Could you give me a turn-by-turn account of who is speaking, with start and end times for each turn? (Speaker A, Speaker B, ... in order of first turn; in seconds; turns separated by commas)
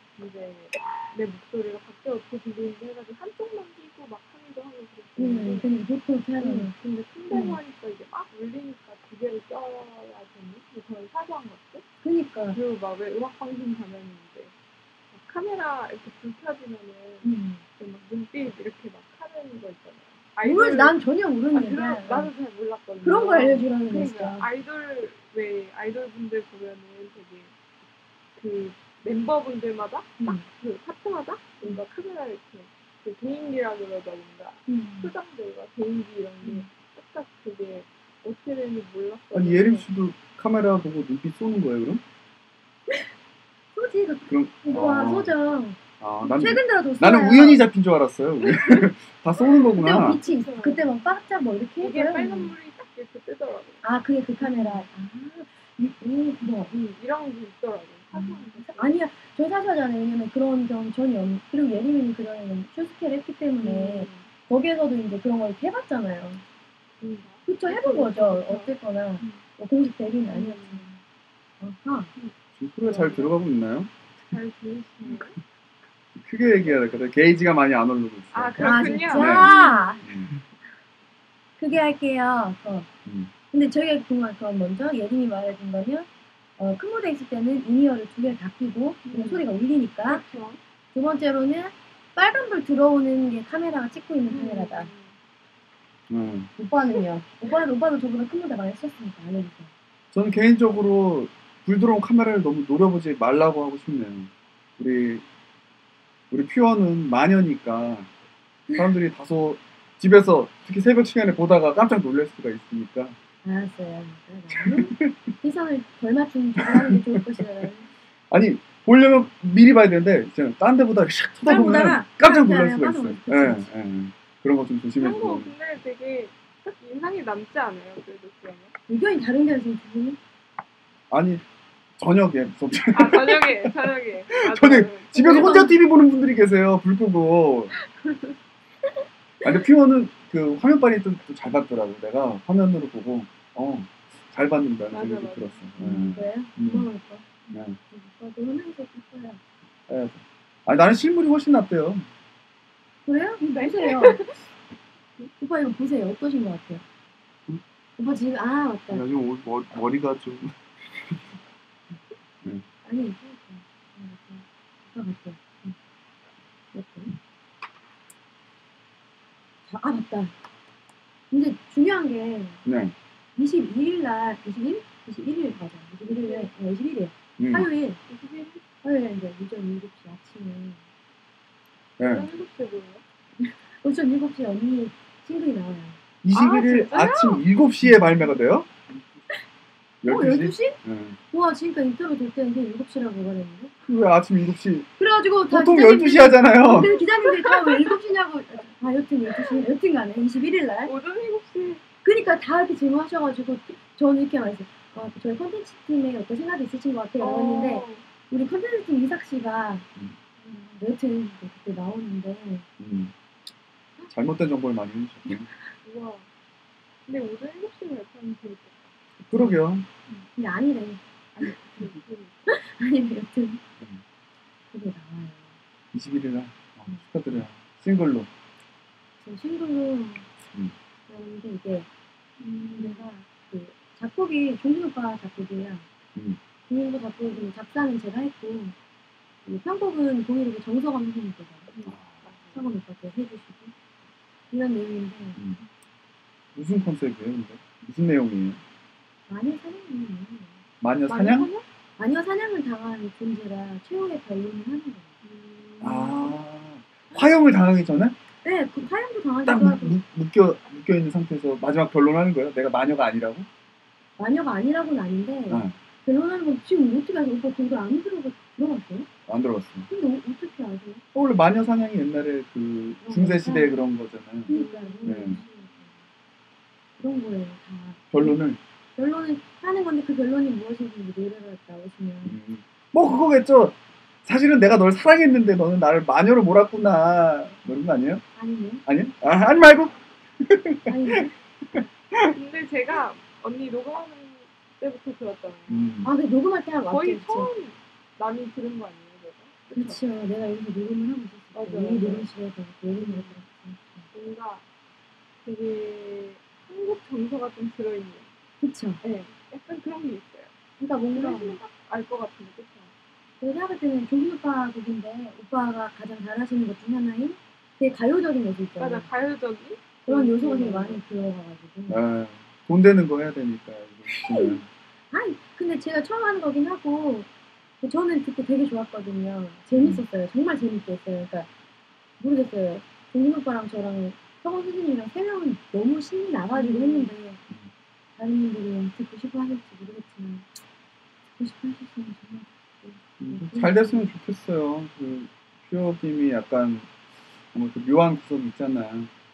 Speaker A: 0.2-5.7, Speaker B: 5.2-6.7, Speaker A: 6.4-11.8, Speaker B: 7.3-7.6, Speaker B: 12.0-12.6, Speaker A: 12.5-14.5, Speaker A: 15.1-21.0, Speaker B: 17.2-17.6, Speaker B: 20.4-22.3, Speaker A: 21.5-27.5, Speaker B: 23.0-24.5, Speaker A: 28.4-39.9, Speaker B: 30.2-30.5, Speaker B: 34.7-35.1, Speaker C: 39.3-42.0, Speaker B: 43.8-47.7, Speaker C: 44.3-45.4, Speaker C: 46.0-50.2, Speaker A: 48.4-48.9, Speaker A: 49.4-51.0, Speaker B: 49.8-52.5, Speaker A: 51.8-53.8, Speaker B: 53.8-56.8, Speaker A: 54.4-54.9, Speaker A: 56.7-59.0, Speaker B: 58.1-66.4, Speaker A: 63.6-64.3, Speaker A: 67.0-69.4, Speaker B: 67.5-70.9, Speaker A: 70.3-71.0, Speaker B: 71.6-72.1, Speaker A: 72.2-73.3, Speaker C: 72.6-73.9, Speaker A: 74.2-75.4, Speaker C: 76.2-79.5, Speaker A: 78.3-80.1, Speaker B: 78.6-80.0, Speaker C: 80.0-80.3, Speaker B: 81.6-82.9, Speaker C: 83.1-83.3, Speaker B: 83.5-90.2, Speaker A: 89.0-89.5, Speaker A: 90.0-90.6, Speaker B: 90.9-94.9, Speaker A: 94.3-95.2, Speaker C: 96.1-96.5, Speaker B: 96.6-99.7, Speaker C: 100.1-105.2, Speaker C: 106.3-108.1, Speaker C: 108.7-113.2, Speaker B: 113.4-117.9, Speaker C: 114.5-115.2, Speaker C: 116.6-117.4, Speaker C: 118.3-125.5, Speaker B: 121.5-123.7, Speaker A: 125.0-128.8, Speaker B: 128.9-130.2, Speaker C: 131.1-131.4, Speaker C: 132.0-137.7, Speaker A: 132.9-135.7, Speaker B: 135.2-135.8, Speaker A: 138.0-138.3, Speaker C: 139.4-146.9, Speaker A: 144.9-145.7, Speaker B: 145.8-149.4, Speaker C: 147.5-147.8, Speaker C: 149.9-152.1, Speaker B: 153.1-154.3, Speaker A: 153.6-154.3, Speaker B: 155.4-156.8, Speaker B: 158.0-159.0, Speaker C: 158.9-161.3, Speaker B: 162.9-165.8, Speaker B: 166.7-167.1, Speaker B: 169.7-170.3, Speaker B: 171.3-172.6, Speaker C: 172.7-172.9, Speaker B: 173.4-178.0, Speaker A: 176.1-176.5, Speaker C: 177.4-177.7, Speaker A: 178.1-178.6, Speaker B: 178.8-180.8, Speaker C: 182.0-182.3, Speaker A: 182.0-183.0, Speaker B: 183.8-186.0, Speaker C: 186.2-188.9, Speaker A: 186.3-187.4, Speaker C: 190.0-191.2, Speaker B: 190.1-190.8, Speaker B: 191.3-193.7, Speaker C: 193.9-194.9, Speaker B: 195.0-200.9, Speaker C: 195.5-196.9, Speaker A: 196.7-197.9, Speaker A: 200.9-201.8, Speaker B: 202.0-209.9, Speaker A: 207.2-208.1, Speaker B: 210.4-212.7, Speaker C: 212.8-213.1, Speaker C: 214.1-215.5, Speaker A: 215.8-216.3, Speaker A: 217.1-218.9, Speaker B: 219.2-219.6, Speaker C: 219.3-219.9, Speaker B: 220.1-221.9, Speaker A: 221.3-222.4, Speaker B: 222.5-223.6, Speaker B: 224.7-225.5, Speaker C: 225.9-228.3, Speaker B: 229.2-230.3, Speaker B: 231.1-231.9, Speaker A: 232.4-233.1, Speaker B: 232.7-235.9, Speaker B: 236.7-238.8, Speaker B: 239.5-241.8, Speaker A: 241.8-242.7, Speaker C: 241.9-242.2, Speaker B: 242.5-243.7, Speaker B: 244.5-245.4, Speaker C: 246.6-248.6, Speaker B: 249.3-250.6, Speaker C: 250.8-251.5, Speaker A: 251.1-251.7, Speaker B: 252.0-255.1, Speaker A: 255.2-256.4, Speaker C: 255.8-258.1, Speaker B: 258.4-260.0, Speaker C: 259.5-263.5, Speaker B: 264.2-269.1, Speaker C: 265.5-265.8, Speaker C: 269.3-269.9, Speaker B: 269.9-271.0, Speaker C: 271.1-275.4, Speaker B: 273.0-273.7, Speaker B: 274.5-275.9, Speaker A: 274.5-275.5, Speaker B: 277.0-278.4, Speaker C: 278.1-278.6, Speaker B: 279.0-282.4, Speaker C: 282.2-288.2, Speaker B: 288.4-288.8, Speaker C: 288.9-292.4, Speaker B: 290.9-291.3, Speaker A: 292.3-295.9, Speaker C: 295.7-296.1, Speaker B: 296.0-297.5, Speaker A: 296.9-300.0, Speaker B: 299.7-304.1, Speaker A: 301.6-302.3, Speaker A: 302.9-303.4, Speaker A: 304.1-304.6, Speaker A: 305.4-308.3, Speaker B: 308.6-309.0, Speaker A: 309.0-310.5, Speaker B: 310.8-311.6, Speaker A: 311.1-312.9, Speaker B: 313.4-319.1, Speaker A: 318.8-321.0, Speaker B: 320.1-322.0, Speaker C: 321.9-324.7, Speaker B: 324.1-324.6, Speaker B: 325.1-327.3, Speaker B: 327.8-331.5, Speaker C: 329.7-330.0, Speaker B: 332.2-337.4, Speaker A: 336.5-337.1, Speaker B: 338.2-340.5, Speaker B: 341.4-344.0, Speaker C: 343.2-346.9, Speaker C: 347.5-349.1